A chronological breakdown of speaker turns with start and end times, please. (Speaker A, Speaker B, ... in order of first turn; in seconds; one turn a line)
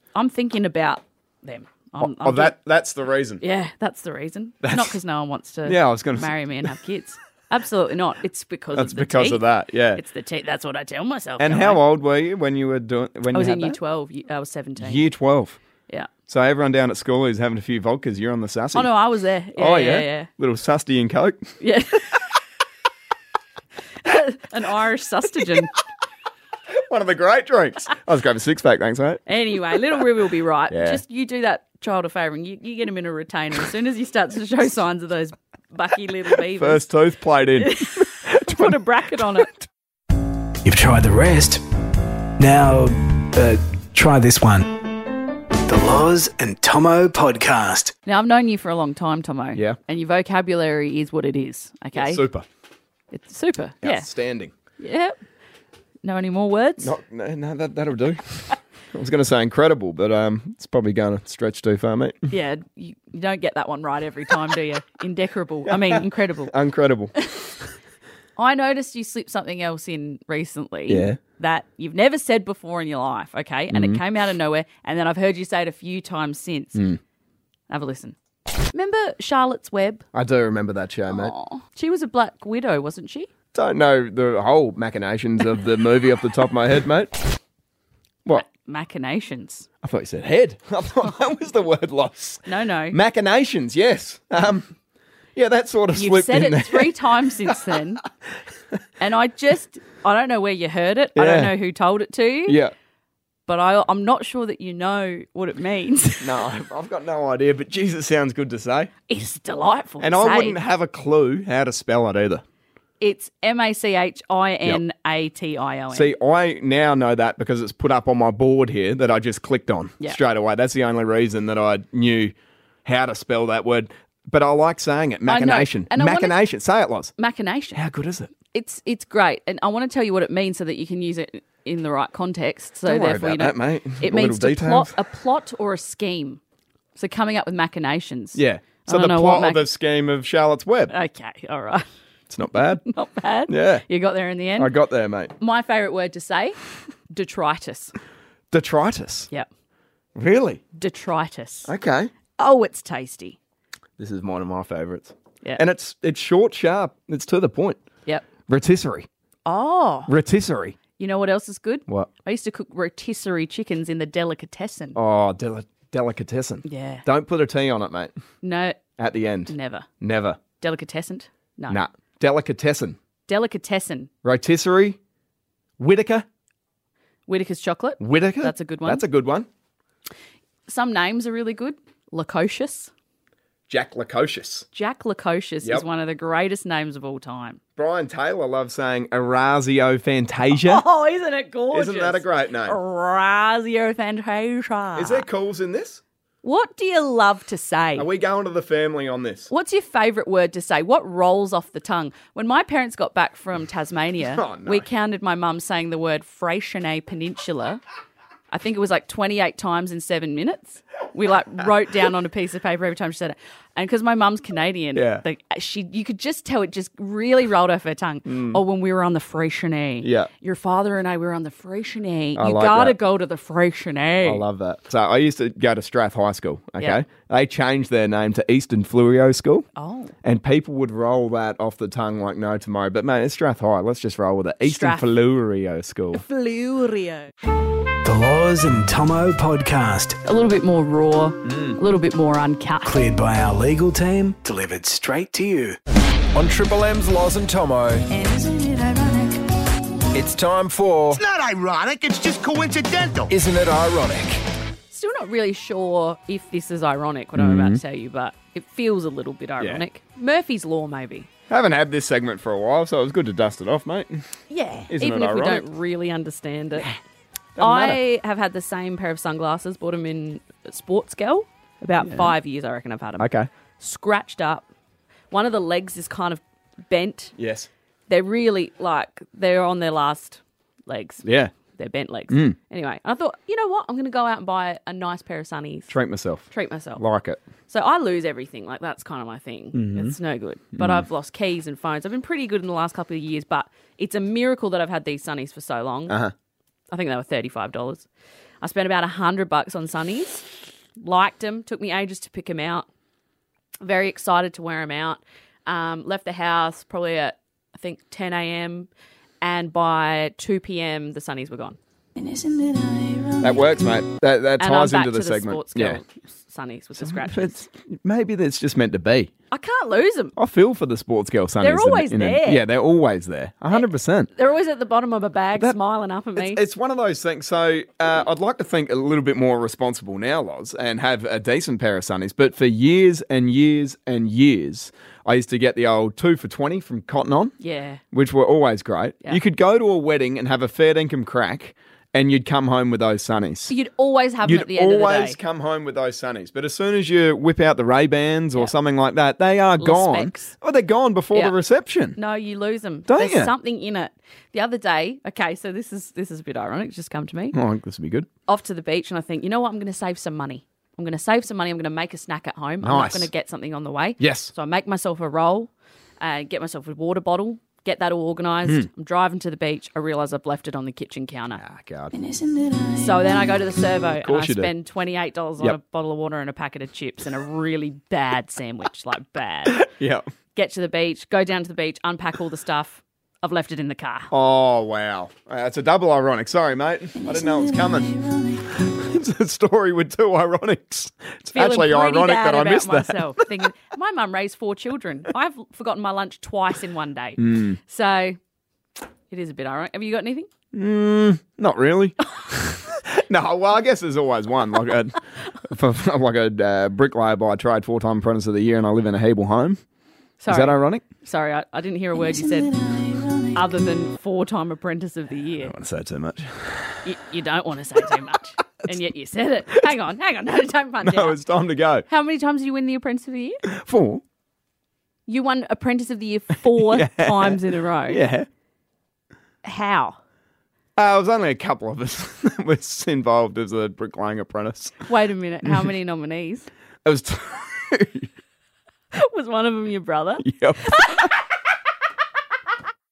Speaker A: 0.1-2.5
Speaker B: 2.0-3.4
Speaker A: 3.4-11.8
Speaker B: 4.6-5.0
Speaker B: 5.7-6.7
Speaker B: 8.7-10.0
Speaker B: 11.4-13.8
Speaker A: 13.3-15.0
Speaker B: 14.8-15.6
Speaker B: 16.3-18.9
Speaker A: 18.7-20.3
Speaker B: 19.6-21.4
Speaker A: 21.6-22.2
Speaker A: 24.0-25.8
Speaker B: 26.7-29.2
Speaker A: 29.3-36.9
Speaker B: 30.7-31.0
Speaker B: 36.5-39.6
Speaker A: 37.6-39.5
Speaker C: 40.6-41.6
Speaker C: 42.4-45.0
Speaker C: 45.6-47.9
Speaker A: 48.1-52.2
Speaker B: 52.0-52.5
Speaker A: 53.1-54.1
Speaker B: 53.8-54.5
Speaker A: 54.8-55.2
Speaker A: 56.0-56.9
Speaker B: 56.8-62.2
Speaker A: 62.3-66.5
Speaker B: 65.7-67.1
Speaker A: 68.4-76.8
Speaker B: 70.9-71.2
Speaker B: 73.7-74.0
Speaker A: 77.7-78.2
Speaker A: 78.7-80.0
Speaker B: 80.1-81.3
Speaker A: 81.1-83.3
Speaker B: 83.5-87.3
Speaker A: 88.3-89.7
Speaker B: 89.8-94.7
Speaker A: 92.5-93.0
Speaker B: 95.3-97.7
Speaker A: 96.0-98.0
Speaker A: 99.0-102.6
Speaker B: 101.2-101.5
Speaker B: 102.5-102.7
Speaker A: 103.5-106.5
Speaker B: 106.2-108.9
Speaker A: 109.1-110.6
Speaker B: 110.0-112.4
Speaker A: 113.0-116.1
Speaker B: 115.9-122.3
Speaker B: 122.8-127.1
Speaker A: 125.3-126.4
Speaker A: 127.2-127.8
Speaker B: 127.7-128.3
Speaker A: 128.5-136.4
Speaker B: 132.9-135.0
Speaker A: 136.9-139.7
Speaker B: 138.3-140.9
Speaker A: 140.9-141.8
Speaker B: 142.3-142.9
Speaker A: 142.9-144.7
Speaker B: 143.5-143.8
Speaker B: 144.6-145.3
Speaker A: 145.4-147.9
Speaker B: 148.5-149.3
Speaker B: 150.2-150.6
Speaker A: 150.8-151.7
Speaker B: 151.7-152.1
Speaker A: 152.4-153.4
Speaker B: 154.0-157.8
Speaker B: 158.5-159.1
Speaker A: 159.5-160.1
Speaker B: 160.1-160.8
Speaker A: 161.0-165.0
Speaker B: 164.9-168.1
Speaker A: 166.7-167.0
Speaker A: 168.4-168.8
Speaker B: 169.0-170.4
Speaker A: 169.5-169.9
Speaker A: 170.6-171.8
Speaker B: 171.7-173.0
Speaker A: 173.3-174.1
Speaker B: 174.2-175.0
Speaker B: 175.8-176.2
Speaker A: 177.3-179.0
Speaker B: 178.0-179.5
Speaker A: 180.7-182.9
Speaker B: 183.7-184.7
Speaker A: 184.7-187.6
Speaker B: 187.8-190.8
Speaker A: 190.5-195.3
Speaker B: 191.7-192.8
Speaker B: 195.0-196.0
Speaker A: 196.4-198.1
Speaker B: 198.0-199.5
Speaker A: 199.5-207.8
Speaker B: 204.3-204.9
Speaker A: 208.5-224.4
Speaker B: 214.9-215.2
Speaker B: 218.3-218.6
Speaker B: 220.0-220.3
Speaker B: 222.3-223.0
Speaker B: 224.2-229.7
Speaker A: 229.8-230.1
Speaker B: 230.2-236.2
Speaker A: 234.6-235.1
Speaker A: 236.1-237.3
Speaker C: 238.0-240.2
Speaker A: 240.2-243.0
Speaker C: 242.8-245.8
Speaker D: 246.3-248.1
Speaker A: 248.1-249.4
Speaker D: 250.1-251.2
Speaker E: 251.3-253.3
Speaker D: 253.3-254.4
Speaker A: 254.9-261.3
Speaker B: 257.4-257.8
Speaker B: 261.5-264.2
Speaker A: 264.5-266.9
Speaker B: 264.9-265.7
Speaker B: 267.6-268.0
Speaker A: 267.6-274.7
Speaker B: 272.1-272.3
Speaker B: 273.2-273.5
Speaker A: 275.3-277.3
Speaker B: 277.4-277.7
Speaker A: 278.1-285.9
Speaker B: 281.2-281.5
Speaker B: 282.3-282.6
Speaker B: 285.9-287.4
Speaker A: 286.5-287.0
Speaker A: 287.7-296.2
Speaker B: 289.7-290.2
Speaker B: 290.8-291.1
Speaker A: 296.9-298.1
Speaker A: 298.6-300.5
Speaker A: 301.0-302.9
Speaker A: 303.8-308.9
Speaker A: 309.4-313.4
Speaker B: 313.4-316.0
Speaker A: 314.6-317.6
Speaker B: 317.0-319.3
Speaker A: 319.5-320.3
Speaker B: 320.4-324.3
Speaker A: 321.6-322.6
Speaker A: 323.7-326.6
Speaker B: 326.4-337.5
Speaker A: 337.6-338.0
Speaker B: 338.1-343.7
Speaker A: 343.7-345.4
Speaker B: 344.4-352.2
Speaker A: 349.8-350.5
Speaker A: 352.2-357.6
Speaker B: 353.1-353.5
Speaker B: 357.5-358.3
Speaker A: 358.5-371.6
Speaker B: 362.8-363.3
Speaker B: 364.2-364.5
Speaker B: 371.5-372.2
Speaker A: 372.5-379.9
Speaker B: 374.1-374.7
Speaker B: 379.7-380.2
Speaker A: 380.5-384.3
Speaker B: 384.3-388.2
Speaker B: 388.7-393.6
Speaker A: 391.6-398.4
Speaker B: 397.4-397.8
Speaker A: 399.3-400.5
Speaker B: 400.7-409.8
Speaker A: 410.4-415.7
Speaker B: 410.5-411.0
Speaker B: 415.6-417.0
Speaker A: 417.1-421.4
Speaker B: 421.0-422.1
Speaker A: 422.1-423.6
Speaker B: 423.7-424.2
Speaker A: 425.3-428.2
Speaker B: 426.7-428.5
Speaker A: 429.6-430.2
Speaker B: 431.0-435.1
Speaker A: 435.1-436.7
Speaker B: 437.1-438.3
Speaker A: 439.1-441.3
Speaker B: 440.4-441.3